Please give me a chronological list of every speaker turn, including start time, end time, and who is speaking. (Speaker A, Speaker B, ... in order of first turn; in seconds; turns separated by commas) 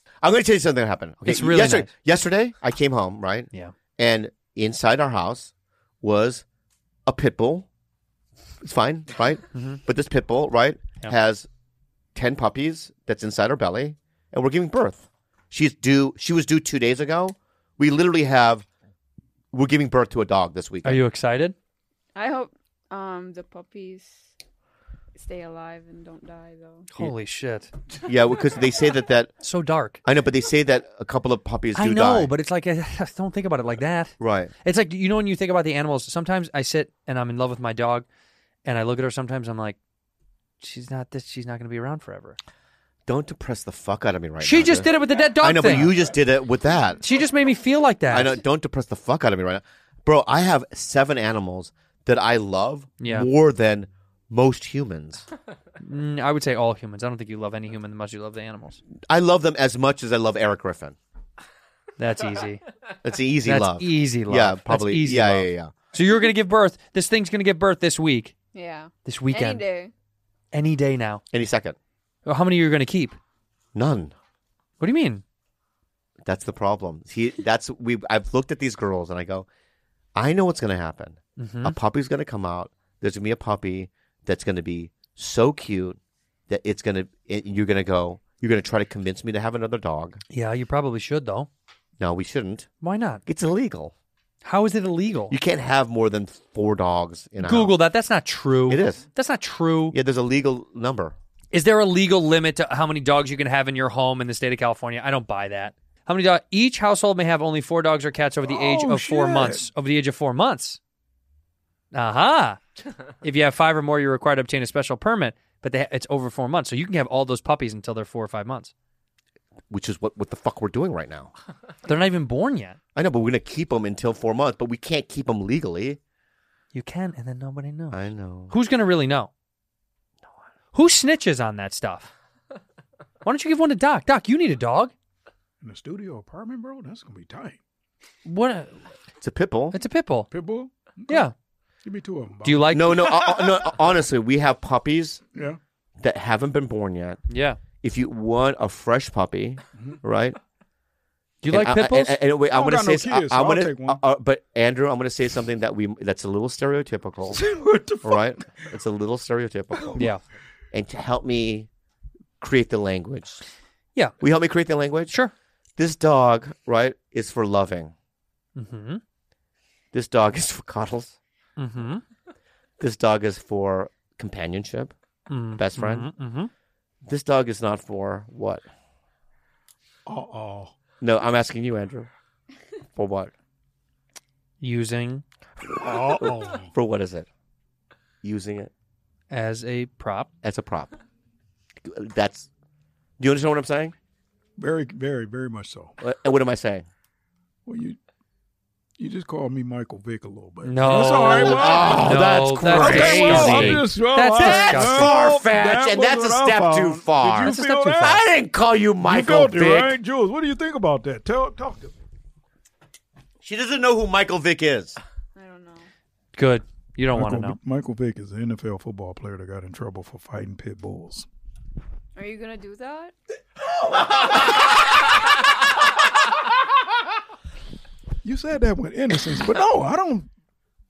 Speaker A: 0.2-5.5, Speaker B: 1.2-1.9, Speaker A: 6.0-6.5, Speaker A: 7.1-7.7, Speaker A: 8.6-11.5, Speaker B: 9.5-9.8, Speaker A: 12.2-18.6, Speaker A: 19.5-21.0, Speaker B: 20.8-21.6, Speaker C: 22.1-24.3, Speaker C: 25.1-26.9, Speaker B: 26.9-27.7, Speaker A: 28.0-29.3, Speaker B: 29.4-30.0, Speaker A: 30.0-32.3, Speaker B: 31.8-38.1, Speaker A: 34.2-34.5, Speaker B: 38.6-39.8, Speaker B: 40.6-42.4, Speaker A: 43.1-47.0, Speaker B: 44.4-46.0, Speaker B: 47.0-48.4, Speaker A: 48.1-55.2, Speaker B: 53.0-53.3, Speaker B: 55.8-58.8, Speaker A: 59.1-61.0, Speaker B: 62.0-62.7, Speaker A: 63.0-65.7, Speaker B: 63.5-68.3, Speaker C: 68.5-69.9, Speaker B: 69.1-69.6, Speaker B: 70.5-71.2, Speaker A: 71.3-71.8, Speaker B: 72.3-73.2, Speaker A: 73.8-74.2, Speaker B: 74.8-75.2, Speaker A: 76.2-79.5, Speaker A: 80.2-90.2, Speaker B: 81.4-81.8, Speaker B: 90.3-91.5, Speaker A: 92.0-92.7, Speaker B: 92.8-93.2, Speaker A: 93.3-93.9, Speaker B: 94.4-95.3, Speaker A: 95.3-97.8, Speaker B: 97.4-100.0, Speaker A: 98.7-99.0, Speaker A: 99.9-101.2, Speaker B: 101.5-110.8, Speaker D: 108.5-109.7, Speaker B: 111.9-112.6, Speaker B: 113.2-118.7, Speaker A: 119.7-121.3, Speaker B: 121.8-122.8, Speaker A: 123.0-126.0, Speaker B: 126.7-128.0, Speaker A: 127.9-128.5, Speaker B: 128.5-129.3, Speaker B: 130.7-132.1, Speaker B: 133.2-134.9, Speaker D: 135.6-137.6, Speaker B: 138.2-138.8, Speaker A: 139.2-139.8, Speaker B: 139.7-140.3, Speaker D: 140.3-141.3, Speaker B: 141.1-141.3, Speaker D: 141.8-142.8, Speaker B: 142.4-143.2, Speaker A: 142.7-145.2, Speaker D: 145.3-145.6, Speaker A: 146.0-147.2, Speaker B: 147.3-147.6, Speaker A: 147.8-150.4, Speaker B: 151.4-152.2, Speaker A: 151.5-157.4, Speaker D: 152.5-154.0, Speaker D: 157.3-158.3, Speaker A: 158.0-160.1, Speaker D: 159.7-160.1, Speaker A: 160.7-161.7, Speaker A: 162.4-163.4, Speaker A: 164.2-165.2, Speaker A: 165.8-167.9, Speaker B: 168.6-169.0, Speaker A: 169.9-171.2, Speaker B: 171.6-172.0, Speaker A: 172.8-174.9, Speaker B: 175.3-176.5, Speaker A: 175.6-176.1, Speaker A: 177.1-178.6, Speaker D: 180.1-180.7, Speaker A: 181.0-182.1, Speaker A: 182.9-183.3, Speaker B: 184.6-185.2, Speaker D: 185.8-186.7, Speaker A: 186.0-187.3, Speaker A: 188.2-188.7, Speaker B: 189.3-190.3, Speaker A: 190.4-190.9, Speaker A: 191.8-192.5, Speaker A: 193.2-193.9, Speaker D: 194.6-195.9, Speaker A: 196.0-196.9, Speaker D: 197.7-198.0, Speaker D: 199.0-208.2, Speaker B: 200.6-205.2, Speaker A: 201.2-209.9, Speaker B: 207.4-208.2, Speaker D: 209.0-211.9, Speaker A: 213.4-215.0, Speaker C: 215.3-215.9, Speaker B: 216.3-217.6, Speaker D: 217.2-221.3, Speaker C: 222.2-223.1, Speaker D: 228.2-230.3